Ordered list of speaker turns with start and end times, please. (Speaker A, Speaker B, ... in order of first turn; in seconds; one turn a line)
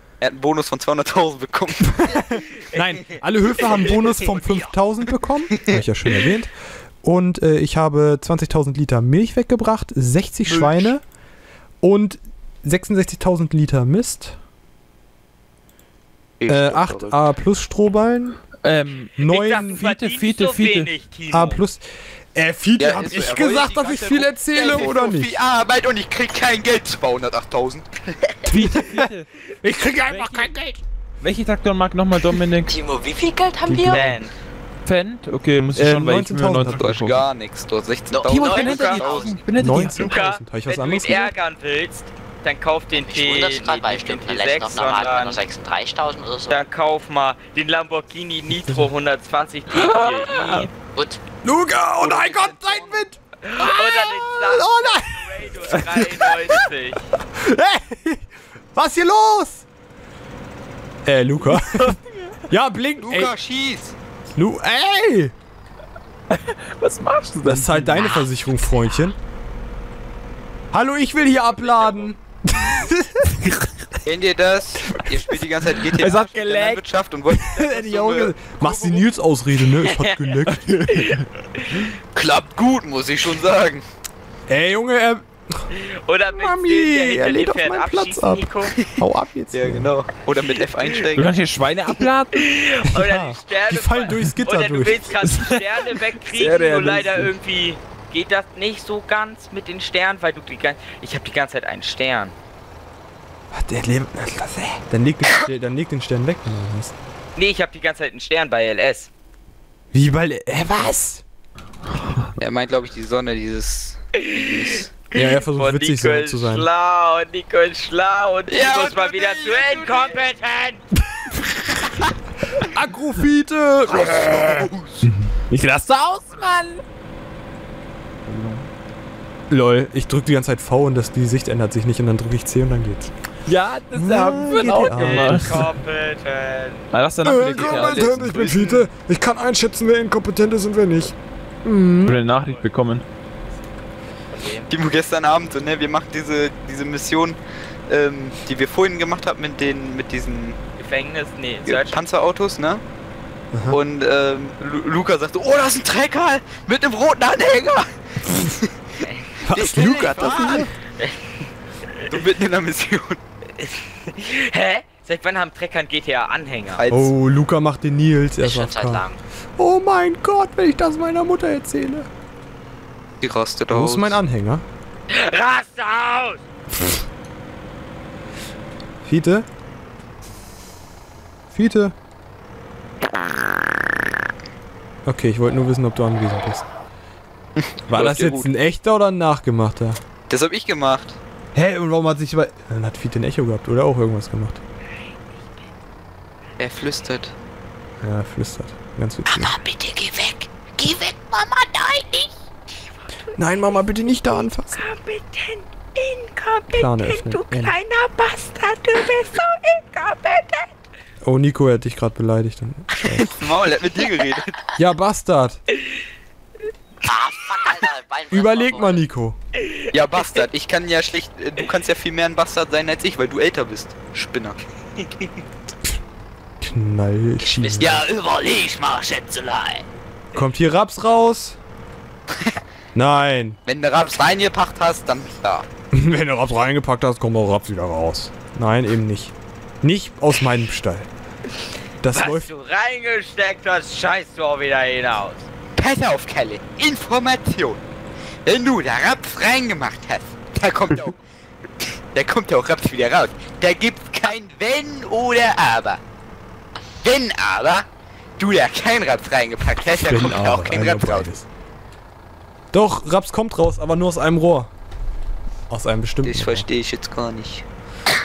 Speaker A: 0.2-2.2
Speaker B: 1.9-11.0
Speaker A: 3.7-4.3
Speaker A: 10.4-10.9
Speaker B: 11.8-14.4
Speaker A: 16.4-17.2
Speaker B: 16.5-18.4
Speaker C: 18.6-20.9
Speaker B: 19.2-19.9
Speaker D: 19.3-21.6
Speaker B: 21.3-21.8
Speaker B: 22.3-25.4
Speaker A: 22.8-28.4
Speaker C: 28.4-29.3
Speaker B: 28.5-30.8
Speaker C: 30.0-30.5
Speaker C: 31.2-32.8
Speaker E: 32.6-34.0
Speaker C: 33.6-34.2
Speaker D: 33.9-34.3
Speaker C: 34.8-37.2
Speaker B: 35.7-36.9
Speaker A: 36.7-39.5
Speaker E: 38.1-39.4
Speaker C: 38.2-40.2
Speaker D: 38.5-39.1
Speaker B: 39.5-41.3
Speaker D: 39.7-45.4
Speaker E: 42.9-46.6
Speaker D: 46.5-50.7
Speaker B: 48.5-48.9
Speaker C: 49.7-50.7
Speaker E: 50.9-51.2
Speaker B: 51.4-56.7
Speaker A: 52.0-53.0
Speaker D: 53.4-57.0
Speaker B: 57.3-59.6
Speaker B: 61.0-62.0
Speaker C: 61.5-62.0
Speaker B: 62.5-63.3
Speaker A: 63.0-64.0
Speaker B: 64.3-65.3
Speaker C: 66.3-68.1
Speaker B: 67.4-69.2
Speaker B: 70.7-73.6
Speaker D: 71.5-72.1
Speaker A: 74.0-79.1
Speaker B: 74.9-75.5
Speaker C: 75.8-76.8
Speaker B: 77.3-81.1
Speaker D: 79.8-80.4
Speaker D: 80.9-81.9
Speaker A: 82.1-83.8
Speaker B: 84.5-85.7
Speaker D: 85.7-88.8
Speaker B: 86.3-89.9
Speaker A: 89.5-91.3
Speaker C: 91.1-92.4
Speaker D: 92.3-102.3
Speaker B: 92.8-95.1
Speaker C: 95.2-95.6
Speaker C: 96.2-97.3
Speaker B: 103.5-106.9
Speaker D: 107.3-109.1
Speaker B: 109.9-111.2
Speaker A: 112.4-114.9
Speaker D: 114.1-120.8
Speaker B: 115.1-116.7
Speaker A: 118.5-120.3
Speaker B: 121.1-121.6
Speaker B: 122.6-124.7
Speaker A: 123.9-125.1
Speaker C: 125.0-126.8
Speaker C: 128.2-128.7
Speaker B: 129.5-133.1
Speaker C: 133.4-135.7
Speaker B: 133.9-135.7
Speaker D: 134.8-136.9
Speaker C: 136.9-138.7
Speaker B: 137.2-142.2
Speaker D: 137.5-138.0
Speaker C: 142.0-143.0
Speaker D: 142.3-142.6
Speaker D: 144.3-144.7
Speaker A: 144.7-150.6
Speaker D: 150.8-152.0
Speaker A: 151.6-152.8
Speaker B: 153.5-153.8
Speaker A: 153.7-158.7
Speaker D: 159.0-159.3
Speaker B: 159.4-160.7
Speaker A: 159.5-160.7
Speaker A: 162.1-163.2
Speaker D: 163.6-166.8
Speaker A: 166.7-167.1
Speaker B: 166.9-172.1
Speaker E: 168.4-169.2
Speaker A: 173.2-174.2
Speaker B: 173.7-174.6
Speaker D: 175.1-176.4
Speaker B: 179.0-179.5
Speaker B: 181.5-181.9
Speaker B: 185.1-186.7
Speaker A: 187.6-188.5
Speaker B: 187.9-190.0
Speaker A: 190.3-191.2
Speaker B: 191.5-194.6
Speaker A: 196.6-197.3
Speaker B: 198.0-199.6
Speaker A: 199.3-201.0
Speaker D: 202.0-202.3
Speaker D: 203.1-203.4
Speaker B: 203.4-204.8
Speaker D: 204.2-210.7
Speaker B: 206.7-207.8
Speaker B: 211.2-213.4
Speaker A: 213.1-214.7
Speaker B: 214.7-215.6
Speaker E: 217.0-219.1
Speaker B: 218.3-219.4
Speaker A: 219.9-224.6
Speaker D: 225.0-225.3
Speaker B: 226.6-228.0
Speaker E: 227.4-228.3
Speaker A: 227.8-229.8
Speaker B: 230.3-231.6
Speaker B: 232.9-233.6
Speaker A: 233.7-235.7
Speaker B: 235.9-241.1
Speaker B: 242.0-242.5
Speaker D: 242.1-245.4
Speaker A: 245.7-247.8
Speaker A: 248.4-251.2
Speaker A: 252.1-256.0
Speaker A: 257.0-257.9
Speaker A: 258.4-261.3
Speaker B: 259.9-261.5
Speaker B: 262.7-264.7
Speaker B: 265.7-266.7
Speaker A: 266.2-267.6